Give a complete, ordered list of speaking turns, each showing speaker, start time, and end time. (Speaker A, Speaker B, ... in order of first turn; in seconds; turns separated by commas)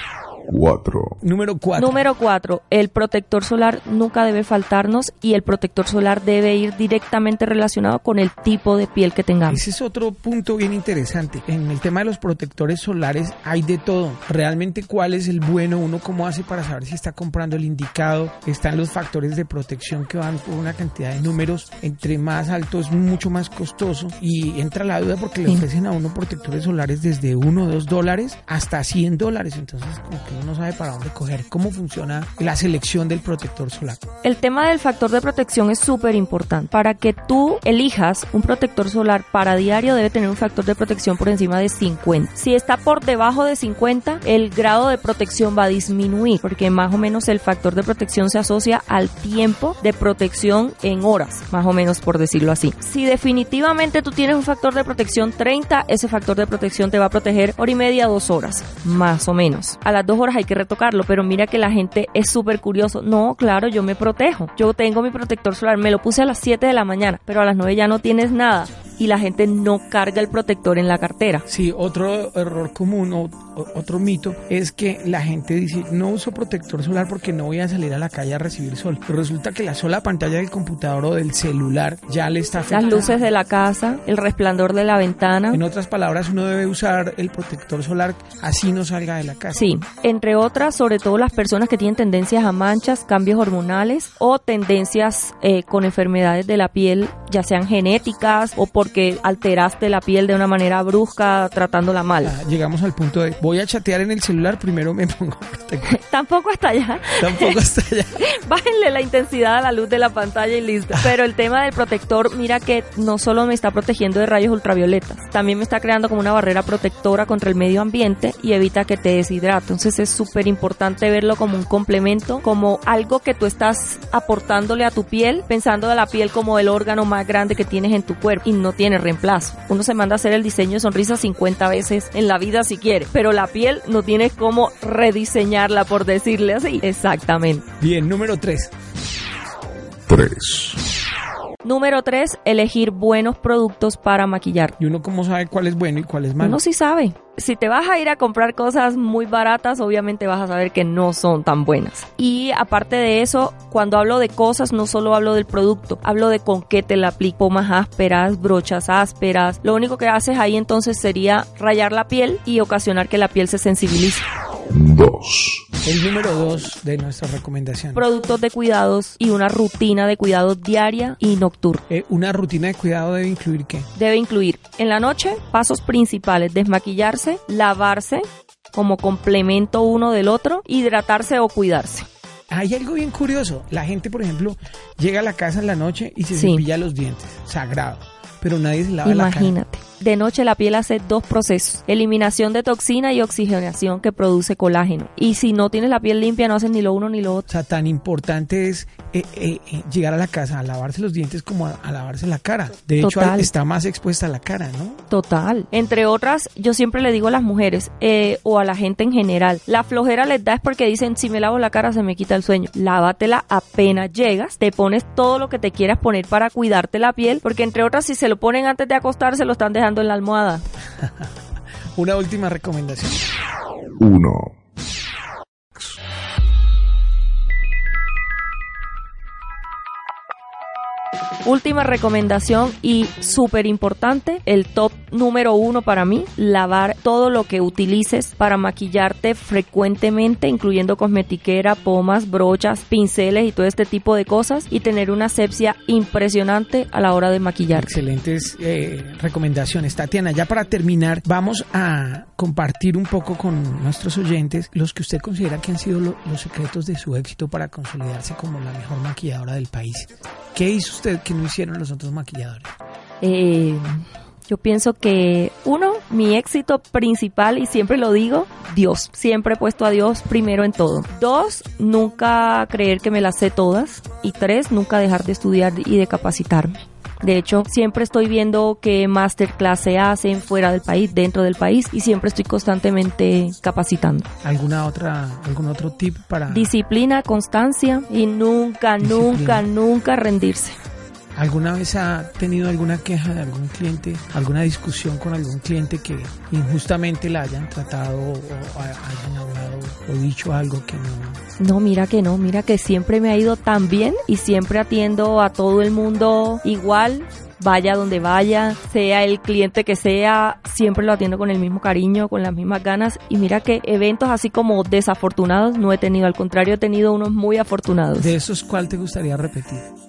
Speaker A: 0.5-1.2, Speaker B: 1.2-2.0, Speaker C: 1.8-9.6, Speaker B: 9.5-34.0, Speaker C: 34.2-71.4, Speaker B: 71.5-83.2, Speaker C: 82.7-85.6, Speaker B: 85.5-89.7, Speaker C: 89.5-102.3, Speaker B: 102.2-106.0, Speaker C: 105.8-107.6, Speaker B: 107.2-108.2, Speaker C: 108.2-137.7, Speaker B: 137.8-138.7, Speaker A: 140.1-140.8, Speaker C: 141.6-144.8, Speaker B: 144.8-146.6, Speaker C: 146.4-164.2, Speaker A: 164.7-165.7, Speaker B: 165.8-168.1, Speaker C: 167.9-171.8, Speaker B: 171.9-173.9, Speaker C: 173.9-182.1, Speaker B: 182.5-189.6, Speaker C: 186.3-186.6, Speaker C: 189.0-197.5, Speaker B: 197.5-205.0, Speaker C: 203.0-203.5, Speaker C: 205.1-220.6, Speaker B: 221.0-221.3, Speaker B: 221.9-223.2, Speaker A: 224.0-224.5, Speaker C: 231.4-247.9, Speaker B: 247.7-262.7, Speaker C: 263.2-284.3, Speaker B: 284.4-286.7, Speaker C: 286.5-290.8, Speaker B: 289.0-289.6, Speaker B: 291.3-301.4, Speaker C: 301.6-318.3, Speaker B: 318.2-319.9